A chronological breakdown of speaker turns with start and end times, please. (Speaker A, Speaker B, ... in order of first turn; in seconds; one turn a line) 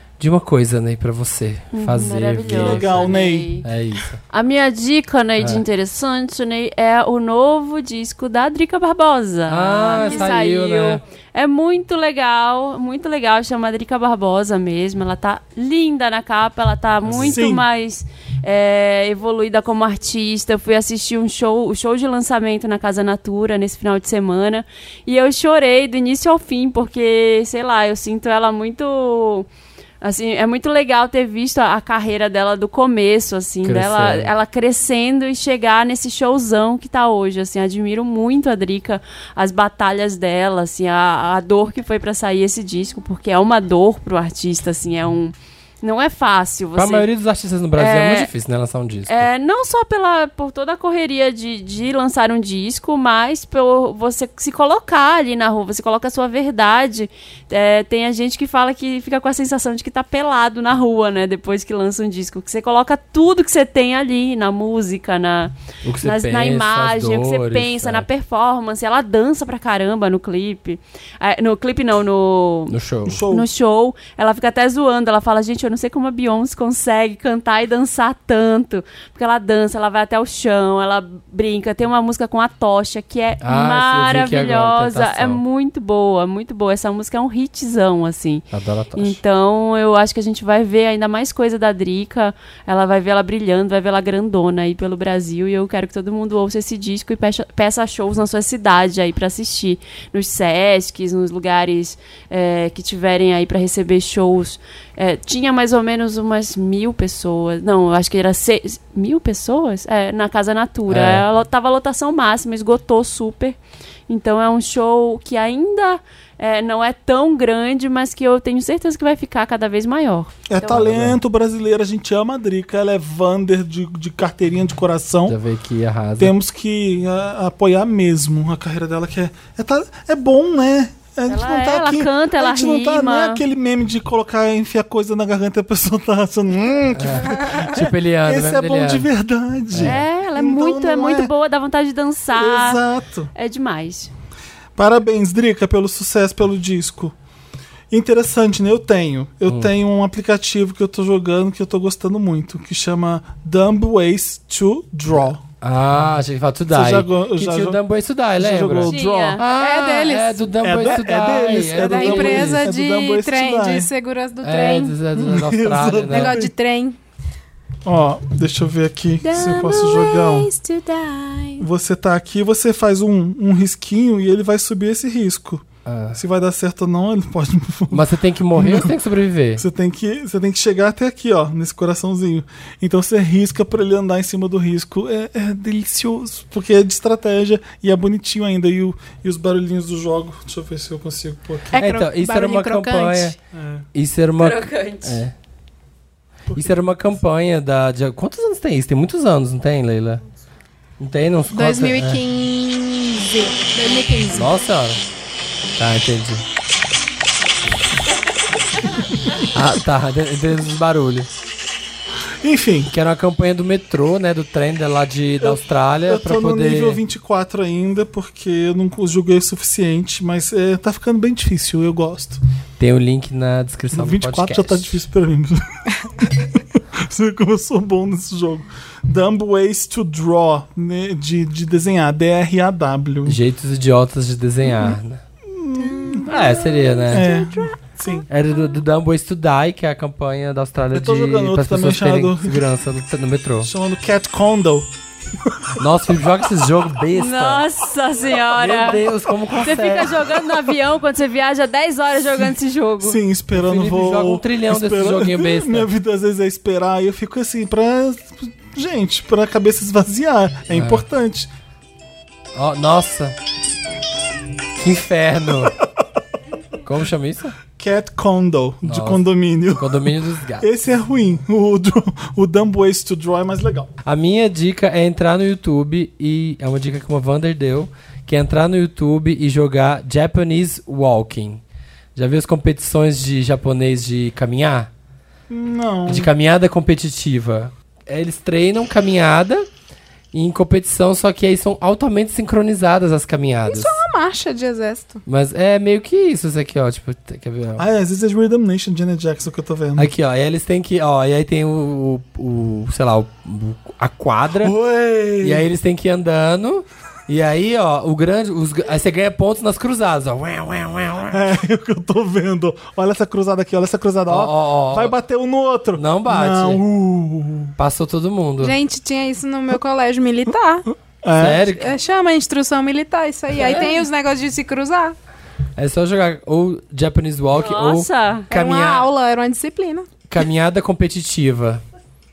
Speaker A: 0.2-4.2
Speaker B: 1.7-3.7
Speaker C: 2.5-3.6
Speaker B: 4.3-29.5
Speaker A: 9.5-11.0
Speaker A: 17.1-17.4
Speaker C: 17.2-17.6
Speaker B: 30.0-47.1
Speaker A: 33.6-34.3
Speaker A: 46.8-49.3
Speaker B: 47.8-48.3
Speaker B: 49.1-72.7
Speaker A: 65.8-68.1
Speaker A: 72.7-73.2
Speaker C: 73.1-73.5
Speaker B: 73.3-113.6
Speaker A: 83.4-85.4
Speaker A: 88.5-89.2
Speaker A: 110.9-111.2
Speaker B: 114.1-120.9
Speaker C: 120.5-125.4
Speaker A: 120.7-121.2
Speaker A: 125.3-126.3
Speaker C: 126.2-141.3
Speaker B: 131.3-133.4
Speaker A: 137.0-139.1
Speaker A: 139.7-140.0
Speaker B: 139.8-142.8
Speaker C: 142.3-143.3
Speaker B: 143.3-144.1
Speaker C: 144.8-147.1
Speaker C: 147.9-155.4
Speaker A: 155.6-162.7
Speaker C: 156.7-157.8
Speaker C: 158.4-159.4
Speaker B: 158.9-159.4
Speaker D: 159.5-160.4
Speaker C: 160.6-163.9
Speaker D: 161.7-165.0
Speaker A: 164.4-166.4
Speaker C: 165.1-166.5
Speaker D: 166.1-167.0
Speaker C: 167.8-170.5
Speaker D: 169.2-171.7
Speaker C: 171.6-178.1
Speaker A: 175.8-176.2
Speaker A: 177.9-179.6
Speaker C: 178.6-178.9
Speaker C: 179.6-191.7
Speaker D: 191.7-193.4
Speaker A: 191.8-193.3
Speaker C: 193.5-193.9
Speaker A: 193.9-195.3
Speaker B: 194.4-195.2
Speaker C: 196.5-196.8
Speaker A: 196.6-200.2
Speaker A: 201.0-202.2
Speaker D: 201.5-204.5
Speaker A: 204.3-205.0
Speaker A: 205.8-206.4
Speaker A: 209.5-211.3
Speaker C: 212.4-212.9
Speaker A: 212.9-217.0
Speaker C: 215.4-222.4
Speaker A: 222.8-224.9
Speaker C: 223.9-225.6
Speaker C: 226.2-233.4
Speaker A: 233.3-235.2
Speaker C: 235.5-236.3
Speaker A: 236.3-237.3
Speaker D: 237.1-238.2
Speaker C: 237.1-238.2
Speaker A: 238.3-243.7
Speaker C: 240.9-242.6
Speaker C: 243.6-244.9
Speaker A: 245.8-247.7
Speaker B: 247.1-249.1
Speaker A: 248.6-250.2
Speaker B: 249.6-253.2
Speaker C: 253.0-261.5
Speaker A: 253.5-255.9
Speaker A: 260.7-261.1
Speaker A: 262.6-263.4
Speaker A: 264.8-265.7
Speaker A: 266.8-267.6
Speaker C: 267.7-273.9
Speaker A: 268.9-270.7
Speaker A: 274.1-281.6
Speaker A: 282.1-284.9
Speaker C: 285.5-286.3
Speaker A: 286.1-289.6
Speaker A: 290.3-294.0
Speaker D: 293.7-295.2
Speaker A: 295.3-297.8
Speaker C: 297.8-300.1
Speaker A: 300.0-304.8
Speaker C: 304.6-305.7
Speaker A: 305.4-311.4
Speaker C: 311.3-317.7
Speaker A: 314.3-315.2
Speaker A: 316.0-316.8
Speaker A: 317.8-318.8
Speaker D: 318.6-320.9
Speaker C: 321.2-321.6
Speaker A: 321.4-321.9
Speaker D: 321.8-325.1
Speaker A: 323.6-323.9
Speaker A: 325.8-329.1
Speaker B: 327.6-328.5
Speaker D: 328.5-330.1
Speaker A: 330.3-331.8